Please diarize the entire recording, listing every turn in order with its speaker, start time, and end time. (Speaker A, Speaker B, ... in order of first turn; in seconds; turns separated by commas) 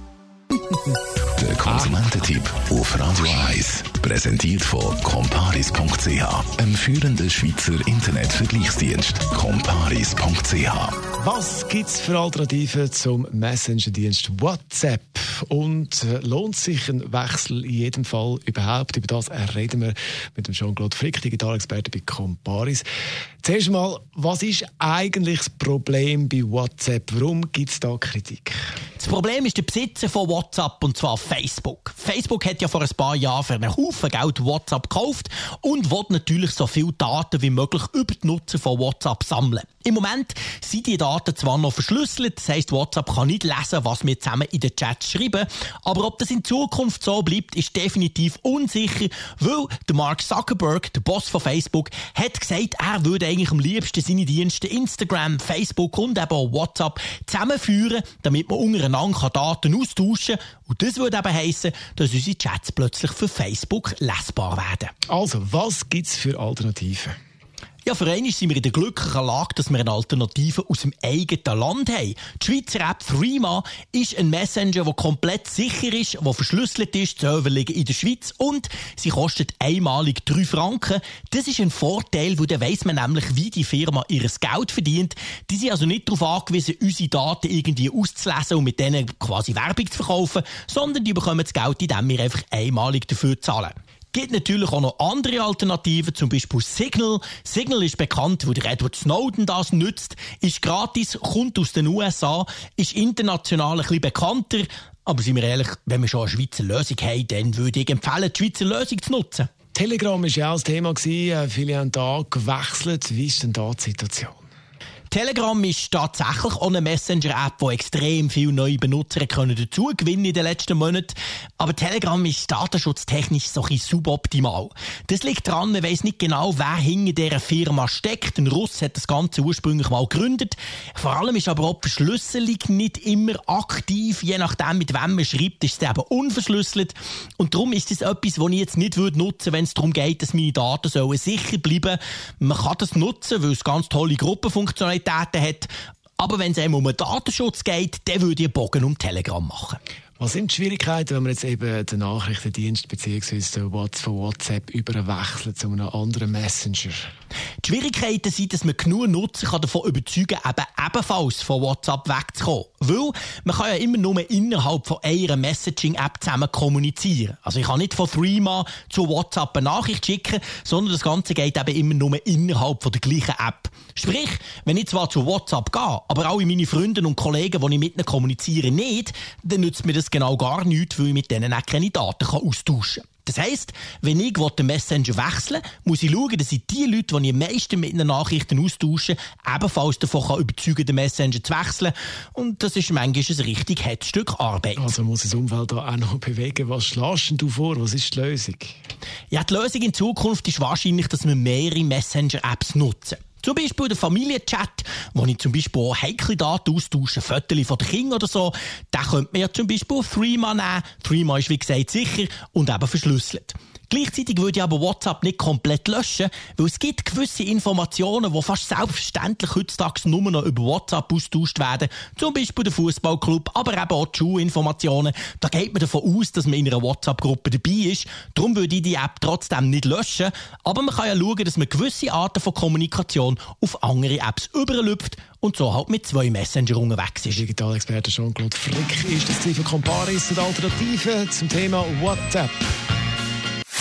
Speaker A: 1.4-11.0, Speaker B: 11.2-22.8, Speaker B: 23.4-28.6, Speaker C: 29.0-64.9, Speaker B: 65.1-67.1, Speaker C: 67.8-109.5, Speaker B: 109.8-114.4, Speaker C: 115.1-149.8, Speaker B: 150.2-157.0, Speaker C: 157.6-194.9, Speaker B: 194.8-198.8, Speaker C: 199.3-237.4, Speaker B: 237.3-242.7